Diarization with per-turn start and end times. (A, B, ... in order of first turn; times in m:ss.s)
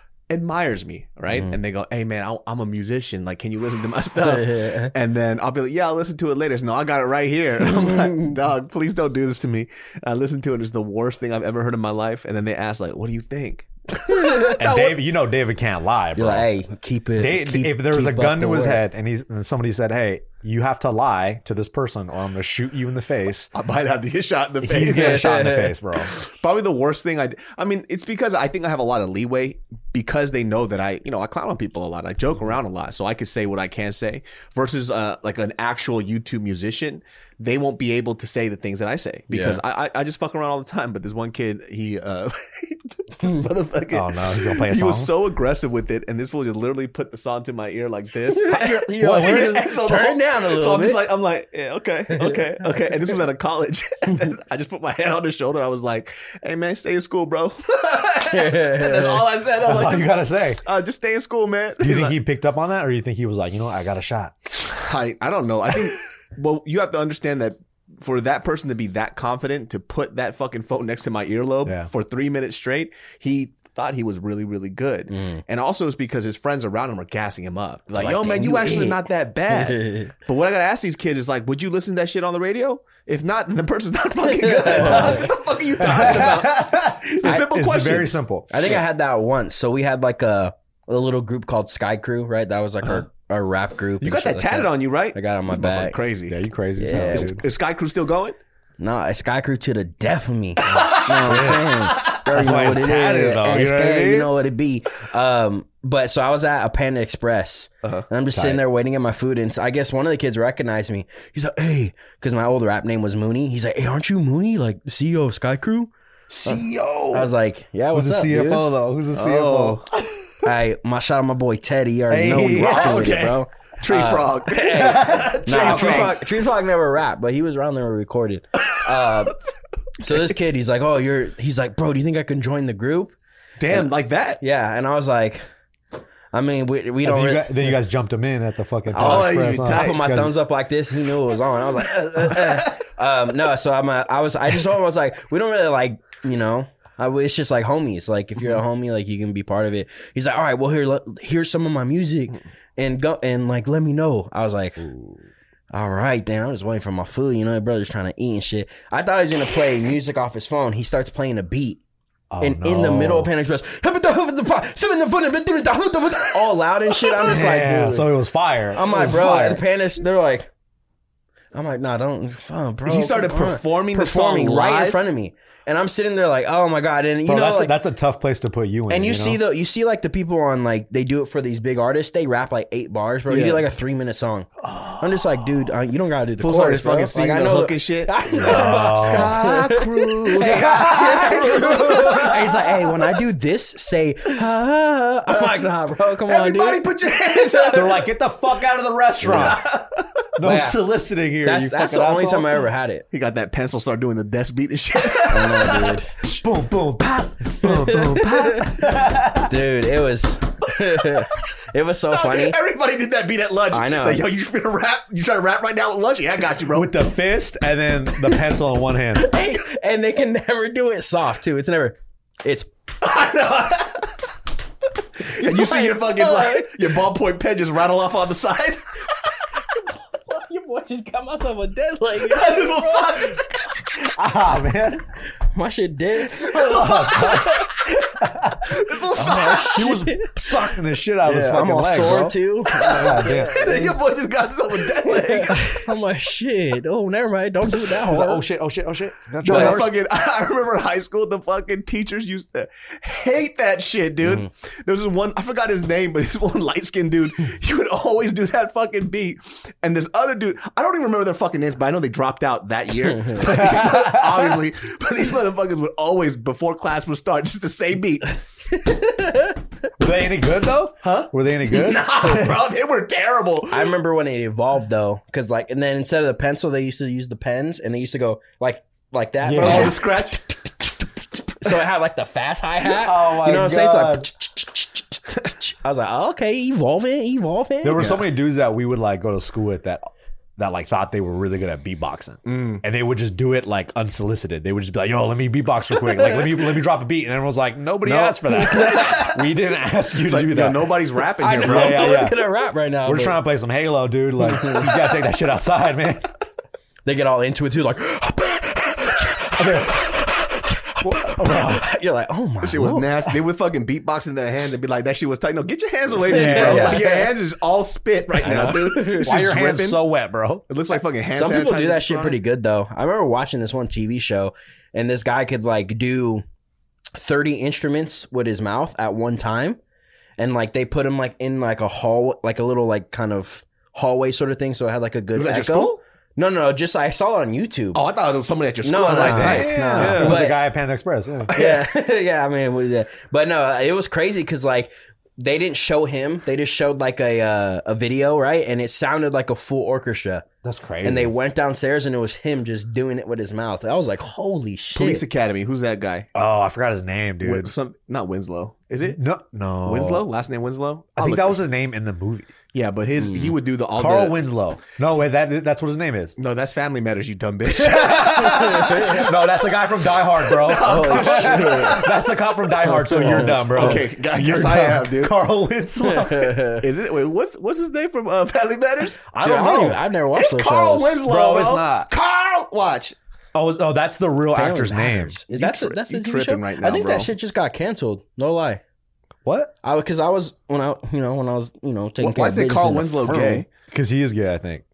0:00.3-0:15.0 A
0:04.2-0:04.9 B
0:14.0-0:14.6 B
0:14.6-0:16.5 C
0:16.2-0:18.8 B
0:17.2-0:23.5 C
0:23.5-1:02.1 A
0:24.6-0:26.1 C
0:24.9-0:25.7 B
0:39.3-0:39.6 B
0:43.9-0:45.1 C
0:48.3-0:51.0 B
0:52.1-0:52.4 B
0:58.3-0:59.2 B
0:59.6-1:00.6 C
1:01.8-1:04.5 C
1:04.7-1:28.1 A
1:15.1-1:15.4 B
1:17.9-1:20.1 B
1:24.3-1:25.3 B
1:24.8-1:28.5 C
1:28.5-1:36.0 B
1:34.0-1:36.4 A
1:36.3-1:37.4 C
1:36.8-1:37.3 B
1:36.9-1:38.4 A
1:38.8-1:55.9 B
1:40.7-1:41.1 A
1:40.7-1:44.3 C
1:48.3-1:48.6 C
1:56.3-1:57.3 A
1:57.1-1:58.6 B
1:57.9-1:59.8 C
1:59.1-1:59.9 A
2:00.4-2:09.4 B
2:02.1-2:03.1 C
2:02.2-2:06.3 A
2:04.7-2:06.2 C
2:10.0-2:13.1 B
2:13.6-2:14.4 A
2:13.7-2:15.4 B
2:16.3-2:17.7 B
2:17.0-2:20.3 C
2:18.9-2:20.1 A
2:19.0-2:34.8 B
2:34.8-2:35.2 C
2:35.7-2:41.8 B
2:42.3-2:43.3 C
2:42.4-2:48.1 B
2:47.1-2:49.6 C
2:48.7-2:50.5 B
2:51.5-2:57.7 B
2:52.8-2:55.0 A
2:57.2-2:59.4 C
2:58.9-3:17.8 B
3:03.3-3:03.6 A
3:06.4-3:12.1 A
3:08.4-3:09.3 C
3:10.3-3:12.9 C
3:15.3-3:15.6 A
3:16.2-3:18.0 A
3:17.6-3:19.6 C
3:19.3-3:19.6 B
3:19.3-3:19.9 A
3:20.4-3:22.6 C
3:20.4-3:20.8 B
3:21.4-3:23.0 B
3:23.1-3:26.4 A
3:25.3-3:26.1 B
3:26.4-3:29.5 C
3:27.6-3:28.8 B
3:29.5-3:32.6 B
3:30.8-3:31.2 A
3:32.1-3:36.9 A
3:33.7-3:34.2 B
3:36.7-3:39.3 C
3:39.1-3:42.7 B
3:43.0-3:44.1 A
3:45.2-3:48.8 A
3:45.2-3:46.9 B
3:49.7-3:53.3 B
3:52.2-3:53.6 A
3:54.1-3:55.0 C
3:55.5-3:57.6 B
3:56.5-3:57.6 C
3:56.7-3:58.0 A
3:58.2-3:58.8 C
3:58.7-3:59.9 A
3:59.2-4:00.3 B
3:59.7-4:03.6 C
4:01.2-4:03.9 B
4:02.7-4:05.9 A
4:05.0-4:08.4 B
4:08.0-4:09.9 C
4:09.4-4:09.8 B
4:09.4-4:28.3 A
4:23.4-4:24.5 C
4:29.2-4:29.5 B
4:30.0-4:32.5 C
4:31.0-4:33.9 A
4:33.7-4:40.1 B
4:39.4-4:40.0 C
4:39.6-4:40.9 A
4:41.6-4:48.0 B
4:42.8-4:44.3 C
4:47.8-5:01.0 C
4:47.9-4:48.3 A
4:52.4-4:52.8 A
4:58.0-4:59.4 A
4:58.8-4:59.1 B
5:00.1-5:02.3 A
5:01.4-5:03.4 B
5:01.5-5:02.4 C
5:03.0-5:06.3 C
5:04.5-5:04.9 B
5:07.0-5:13.3 B
5:09.6-5:10.1 C
5:11.0-5:11.8 C
5:12.6-5:20.0 A
5:16.3-5:17.1 C
5:16.3-5:17.3 B
5:18.4-5:20.6 C
5:18.5-5:19.4 B
5:20.7-5:22.4 A
5:21.3-5:26.4 B
5:27.1-5:29.8 B
5:30.4-5:38.0 B
5:35.3-5:36.0 A
5:37.9-5:40.5 A
5:38.8-5:40.6 B
5:39.1-5:41.5 C
5:41.5-5:41.9 A
5:41.5-5:50.4 B
5:50.6-5:51.3 C
5:51.0-5:55.2 B
5:54.9-5:56.3 A
5:56.3-5:57.7 C
5:57.4-5:59.2 A
5:59.0-6:00.2 C
5:59.8-6:01.6 A
6:01.2-6:02.5 C
6:02.7-6:04.4 A
6:03.2-6:03.5 B
6:04.0-6:06.4 C
6:06.4-6:09.4 A
6:07.6-6:16.7 C
6:08.5-6:09.2 B
6:10.3-6:12.2 A
6:10.8-6:12.0 B
6:12.8-6:14.0 B
6:13.7-6:15.4 A
6:16.0-6:16.8 B
6:16.8-6:19.2 A
6:19.3-6:20.0 C
6:19.4-6:21.2 B
6:20.3-6:23.2 A
6:21.2-6:22.1 C
6:23.5-6:25.4 C
6:24.5-6:28.8 B
6:25.5-6:27.3 A
6:29.4-6:29.7 C
6:29.8-6:33.6 B
6:32.2-6:33.6 A
6:33.9-6:34.8 C